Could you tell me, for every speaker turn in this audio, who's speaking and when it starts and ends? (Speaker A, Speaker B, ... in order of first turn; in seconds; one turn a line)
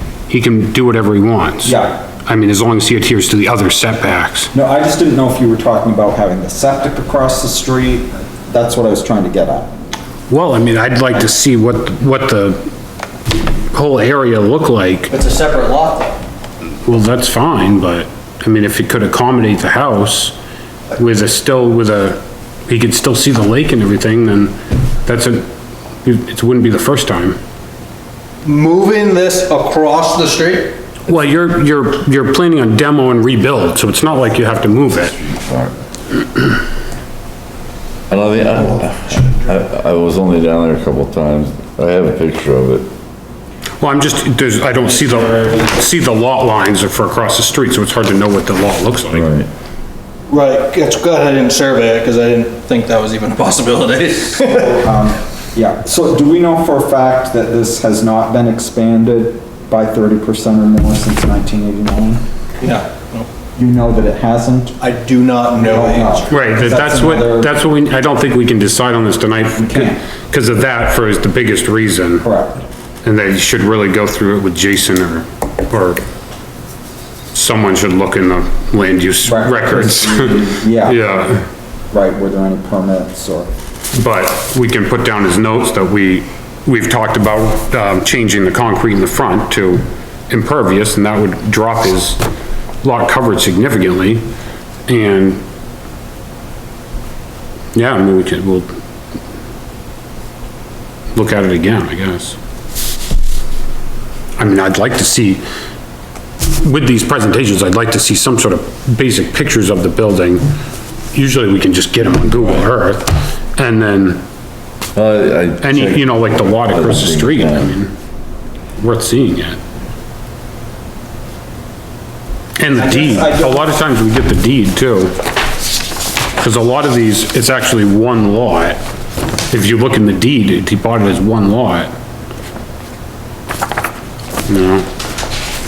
Speaker A: 0.3-4.5
Speaker B: 1.6-2.0
Speaker B: 4.5-9.7
Speaker A: 10.3-12.6
Speaker A: 13.7-15.1
Speaker C: 15.1-16.2
Speaker A: 16.8-20.4
Speaker A: 20.9-25.5
Speaker A: 26.0-27.4
Speaker C: 28.4-30.8
Speaker A: 31.1-35.1
Speaker D: 35.1-35.7
Speaker D: 38.1-42.9
Speaker C: 38.7-39.4
Speaker A: 43.8-49.3
Speaker C: 45.0-45.7
Speaker D: 49.1-49.5
Speaker C: 50.3-54.8
Speaker B: 54.4-62.2
Speaker C: 62.6-63.3
Speaker B: 63.5-64.8
Speaker C: 64.8-66.4
Speaker B: 65.5-67.5
Speaker A: 66.3-72.2
Speaker B: 69.6-70.0
Speaker B: 72.2-72.6
Speaker A: 73.0-76.0
Speaker A: 77.3-81.4
Speaker B: 79.2-81.2
Speaker B: 81.9-83.5
Speaker A: 83.9-92.2
Speaker A: 92.8-94.2
Speaker A: 94.9-95.4
Speaker A: 97.7-98.7
Speaker A: 101.1-102.3
Speaker A: 104.4-105.4
Speaker A: 106.6-110.5
Speaker A: 111.1-114.2
Speaker D: 114.9-117.7
Speaker A: 115.6-117.9
Speaker A: 118.8-119.6
Speaker A: 122.6-125.1
Speaker B: 122.8-123.4
Speaker C: 123.0-123.5
Speaker A: 126.4-128.8
Speaker A: 129.5-131.9
Speaker A: 134.5-134.8